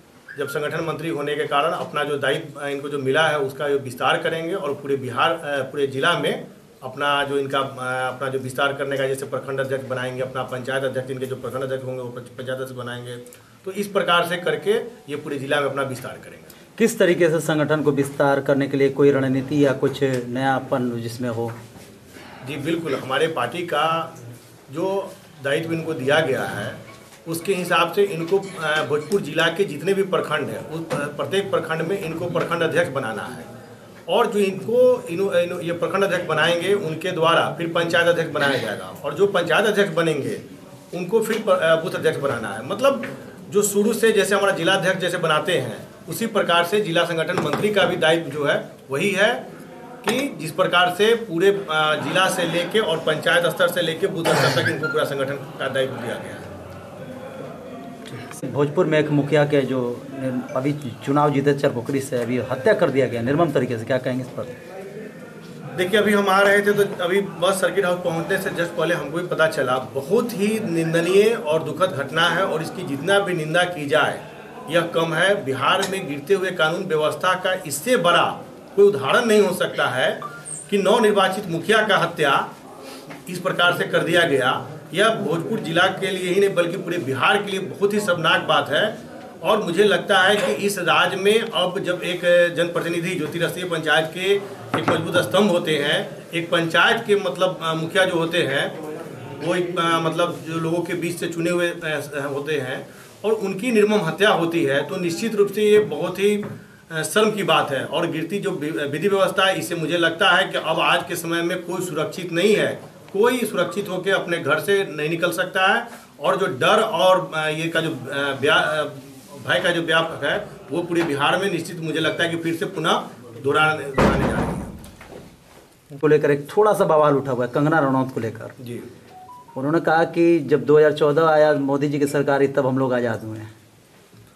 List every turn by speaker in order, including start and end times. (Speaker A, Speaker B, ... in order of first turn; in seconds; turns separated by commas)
Speaker A: 0.3-16.5, Speaker B: 16.8-21.6, Speaker A: 22.4-24.1, Speaker A: 24.7-33.5, Speaker A: 34.1-49.4, Speaker A: 50.0-56.5, Speaker B: 58.1-64.5, Speaker A: 65.7-82.5, Speaker A: 83.3-98.7, Speaker A: 99.4-124.7, Speaker B: 125.9-128.5, Speaker A: 128.6-128.9, Speaker B: 129.5-133.5